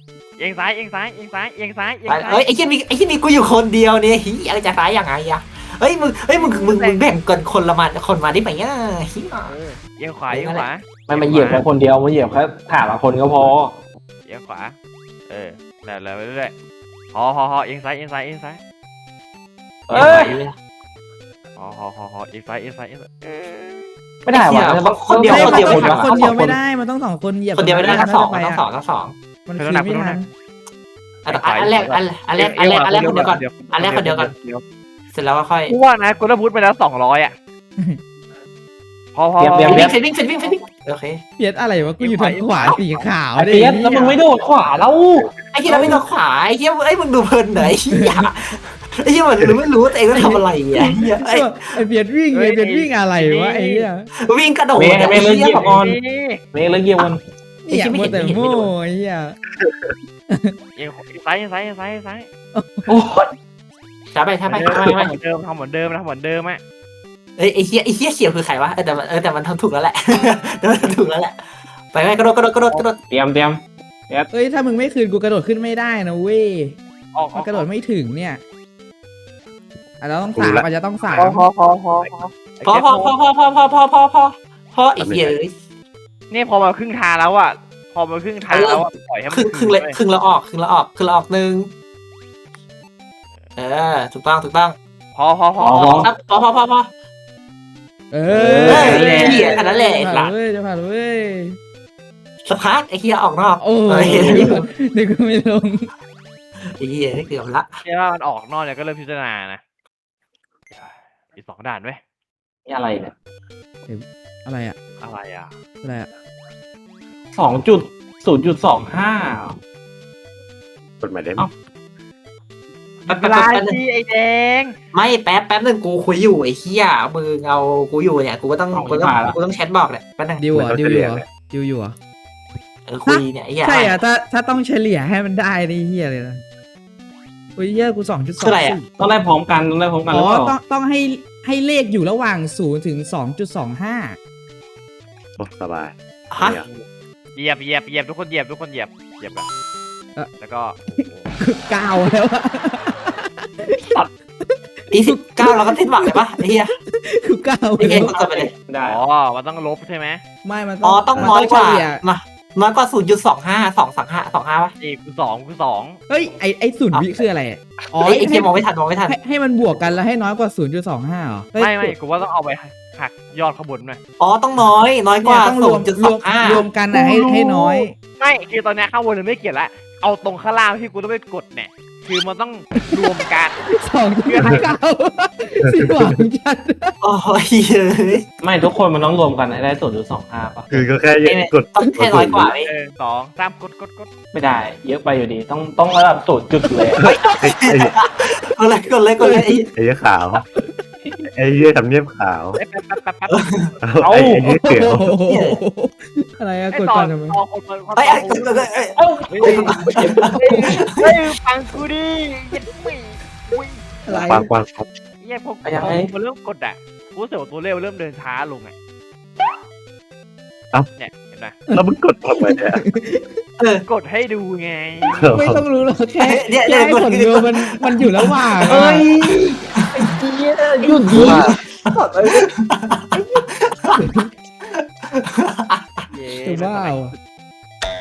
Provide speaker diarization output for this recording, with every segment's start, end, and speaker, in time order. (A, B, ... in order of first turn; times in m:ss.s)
0:00.4-0:02.4 A
0:02.1-0:09.6 B
0:06.3-0:07.0 A
0:09.5-0:11.7 A
0:10.3-0:10.7 B
0:11.1-0:13.8 C
0:14.3-0:14.8 A
0:15.3-0:16.5 A
0:17.1-0:18.6 A
0:19.9-0:20.4 C
0:19.9-0:20.6 B
0:19.9-0:20.3 A
0:21.6-0:23.9 A
0:24.3-0:26.6 C
0:24.3-0:26.5 B
0:25.2-0:28.6 D
0:27.6-0:29.2 B
0:29.5-0:30.3 D
0:29.6-0:30.2 A
0:31.2-0:34.3 B
0:31.3-0:34.6 A
0:35.1-0:35.8 B
0:35.7-0:37.4 A
0:39.2-0:40.0 A
0:39.4-0:40.0 C
0:39.7-0:41.2 B
0:41.4-0:44.1 D
0:42.0-0:43.1 A
0:43.4-0:45.3 C
0:43.9-0:44.2 A
0:45.5-0:51.8 B
0:45.7-0:46.0 D
0:47.6-0:48.3 D
0:50.1-0:54.1 D
0:52.3-0:53.9 A
0:54.2-0:55.8 B
0:54.8-0:56.0 C
0:55.6-0:56.4 A
0:56.5-0:57.2 C
0:57.6-0:59.4 D
0:57.7-0:58.7 B
0:59.6-1:00.0 E
1:00.8-1:02.3 A
1:02.6-1:02.9 D
1:02.9-1:03.3 C
1:04.1-1:05.1 B
1:04.5-1:06.6 A
1:07.4-1:11.4 B
1:11.9-1:13.0 B
1:13.1-1:14.3 C
1:14.3-1:16.8 D
1:17.1-1:17.7 A
1:17.3-1:18.4 D
1:20.0-1:21.5 D
1:20.4-1:20.7 E
1:21.2-1:23.1 A
1:22.6-1:25.5 B
1:25.0-1:25.4 E
1:26.3-1:30.0 A
1:28.5-1:31.7 B
1:33.6-1:34.8 B
1:35.2-1:36.1 A
1:35.6-1:36.1 C
1:36.0-1:36.9 B
1:38.1-1:41.6 D
1:38.3-1:39.7 C
1:38.7-1:40.3 B
1:42.4-1:44.6 B
1:43.6-1:45.9 D
1:44.1-1:44.6 C
1:46.8-1:47.7 B
1:47.8-1:49.6 A
1:50.7-1:52.0 A
1:52.7-1:53.1 C
1:53.8-1:54.8 D
1:55.0-1:55.5 A
1:55.8-1:56.1 D
1:57.3-1:59.6 C
2:01.0-2:01.5 E
2:03.1-2:04.7 A
2:03.1-2:03.8 B
2:04.9-2:10.4 B
2:08.7-2:09.4 C
2:10.4-2:12.0 D
2:10.5-2:11.2 E
2:12.9-2:14.0 B
2:13.1-2:16.4 D
2:17.6-2:18.9 D
2:18.4-2:18.8 B
2:18.9-2:20.6 C
2:20.1-2:24.2 D
2:25.4-2:26.7 E
2:26.3-2:26.6 B
2:27.4-2:29.5 A
2:30.4-2:31.3 A
2:31.0-2:33.8 D
2:34.4-2:38.2 D
2:34.9-2:36.7 B
2:37.8-2:39.0 C
2:37.8-2:38.5 B
2:38.8-2:40.2 A
2:40.4-2:42.0 D
2:40.8-2:44.7 B
2:44.8-2:46.0 A
2:46.1-2:51.9 D
2:46.9-2:47.2 B
2:48.0-2:49.2 B
2:51.6-2:54.0 A
2:54.2-2:57.9 B
2:55.2-2:58.0 D
2:58.2-3:03.6 A
3:02.8-3:03.1 D
3:03.7-3:06.9 D
3:04.2-3:04.7 A
3:05.6-3:06.2 E
3:07.0-3:08.2 B
3:08.4-3:10.7 C
3:10.7-3:12.5 E
3:11.2-3:12.7 B
3:12.6-3:14.1 A
3:14.3-3:17.0 C
3:16.7-3:16.9 D
3:17.0-3:17.9 E
3:17.0-3:19.7 B
3:19.2-3:19.6 D
3:19.7-3:20.4 E
3:20.6-3:21.3 C
3:21.3-3:22.6 E
3:22.6-3:23.8 A
3:23.8-3:25.1 E
3:24.0-3:24.5 C
3:24.6-3:27.4 D
3:25.2-3:25.6 B
3:26.7-3:28.7 A
3:28.0-3:31.3 B
3:29.0-3:30.7 C
3:29.3-3:29.7 A
3:30.3-3:34.3 A
3:34.1-3:34.5 D
3:34.2-3:34.9 E
3:35.2-3:38.7 A
3:35.6-3:36.1 C
3:41.0-3:41.6 A
3:41.8-3:42.8 E
3:42.4-3:43.3 D
3:43.6-3:43.8 B
3:43.9-3:45.2 A
3:45.2-3:45.7 E
3:45.2-3:49.1 D
3:46.2-3:49.0 B
3:48.7-3:52.5 C
3:50.8-3:54.0 B
3:53.1-3:53.4 D
3:54.0-3:54.3 D
3:54.6-3:56.1 B
3:56.1-3:57.2 A
3:56.4-3:57.1 D